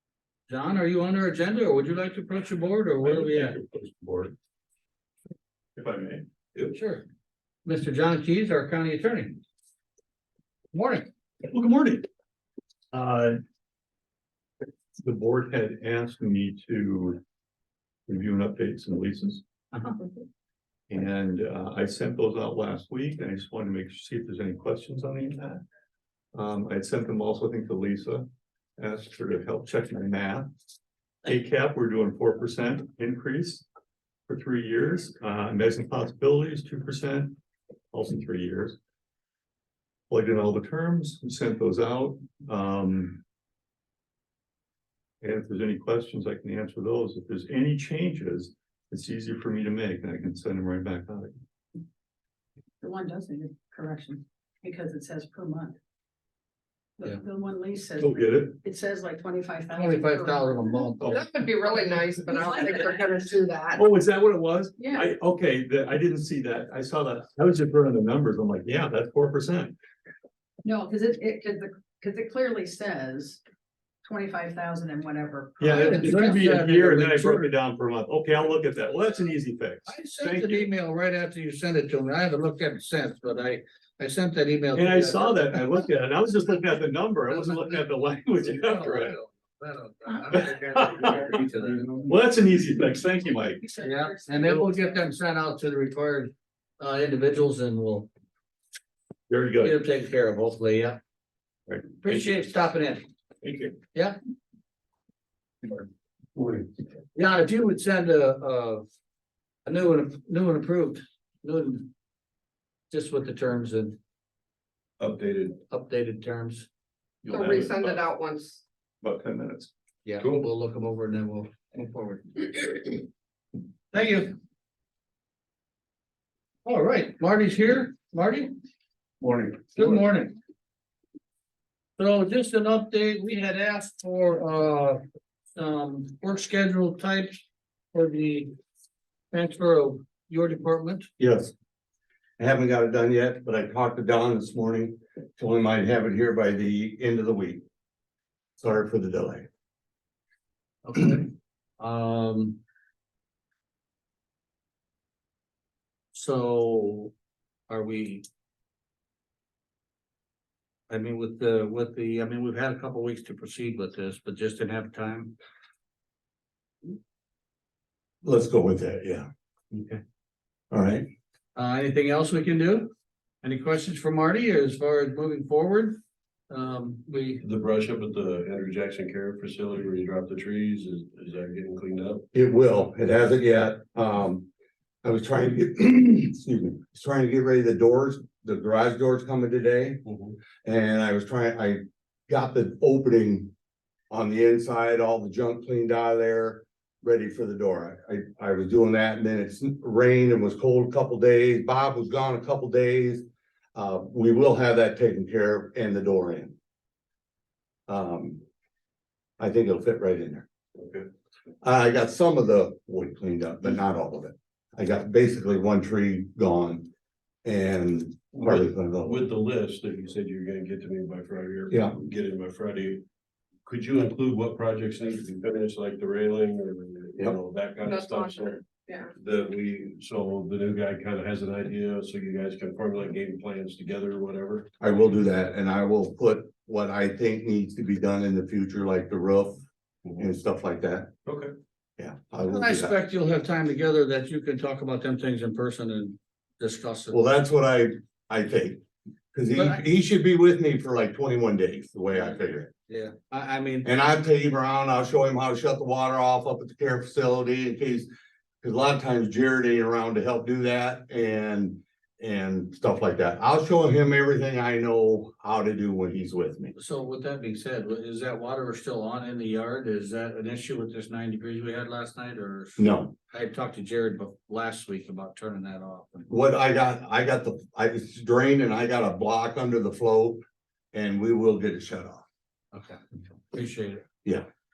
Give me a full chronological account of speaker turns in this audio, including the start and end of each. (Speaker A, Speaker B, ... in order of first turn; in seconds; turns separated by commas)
Speaker A: 0.5-3.6, Speaker B: 3.0-4.3, Speaker B: 5.8-6.3, Speaker A: 6.7-7.0, Speaker A: 7.7-9.4, Speaker A: 10.7-11.1, Speaker B: 11.5-12.1, Speaker B: 12.9-13.4, Speaker B: 15.0-17.2, Speaker B: 18.1-19.4, Speaker B: 20.9-25.6, Speaker B: 26.3-30.5, Speaker B: 31.2-33.6, Speaker B: 34.3-37.4, Speaker B: 37.9-38.8, Speaker B: 40.1-43.2, Speaker B: 45.2-51.3, Speaker C: 52.8-55.8, Speaker C: 57.0-60.8, Speaker B: 58.0-58.6, Speaker A: 59.7-61.1, Speaker B: 61.0-62.1, Speaker D: 61.1-63.8, Speaker C: 62.3-63.3, Speaker B: 63.8-69.7, Speaker C: 64.8-65.1, Speaker C: 70.6-73.4, Speaker C: 74.0-76.2, Speaker B: 75.6-80.7, Speaker A: 75.7-77.5, Speaker A: 79.9-85.6, Speaker B: 84.7-89.2, Speaker A: 87.3-87.8, Speaker A: 88.5-92.0, Speaker B: 90.3-91.3, Speaker B: 91.8-93.7, Speaker C: 93.6-94.7, Speaker A: 93.8-98.1, Speaker B: 99.3-99.8, Speaker A: 99.6-101.0, Speaker B: 101.7-102.4, Speaker A: 102.0-103.1, Speaker B: 103.4-103.8, Speaker B: 106.4-106.6, Speaker A: 107.2-108.8, Speaker A: 109.7-111.9, Speaker A: 112.9-114.0, Speaker E: 115.0-115.6, Speaker A: 115.7-116.7, Speaker B: 117.3-118.0, Speaker D: 117.3-118.6, Speaker B: 119.0-119.7, Speaker A: 120.0-122.9, Speaker E: 120.2-120.5, Speaker A: 123.9-124.3, Speaker A: 126.7-128.5, Speaker B: 129.2-129.6, Speaker A: 129.8-130.3, Speaker A: 132.0-135.0, Speaker A: 135.5-138.5, Speaker A: 139.3-141.1, Speaker F: 141.2-141.5, Speaker F: 142.4-147.6, Speaker F: 148.6-149.4, Speaker A: 150.8-152.6, Speaker A: 156.1-157.1, Speaker A: 157.7-158.2, Speaker A: 160.9-165.3, Speaker F: 168.2-169.3, Speaker F: 170.7-171.1, Speaker A: 171.6-172.9, Speaker A: 173.4-177.4, Speaker E: 177.4-182.2, Speaker F: 182.3-184.5, Speaker F: 185.0-190.0, Speaker E: 190.1-190.4, Speaker F: 190.6-193.5, Speaker F: 194.1-203.2, Speaker F: 203.8-206.6, Speaker F: 207.9-208.4, Speaker F: 209.4-210.5, Speaker E: 210.8-211.1, Speaker F: 211.6-216.9, Speaker F: 217.4-219.2, Speaker E: 218.3-223.0, Speaker F: 221.7-222.0, Speaker E: 223.7-228.6, Speaker D: 227.8-229.1, Speaker E: 229.2-234.7, Speaker F: 234.8-239.6, Speaker F: 240.2-241.1, Speaker E: 241.2-241.5, Speaker F: 242.0-243.0, Speaker A: 242.5-247.2, Speaker F: 247.1-248.8, Speaker F: 249.3-252.7, Speaker A: 249.6-249.8, Speaker A: 252.9-253.9, Speaker F: 253.8-258.1, Speaker F: 258.6-266.7, Speaker A: 266.8-276.3, Speaker F: 272.8-273.1, Speaker F: 276.3-280.4, Speaker F: 280.9-282.2, Speaker A: 282.7-284.1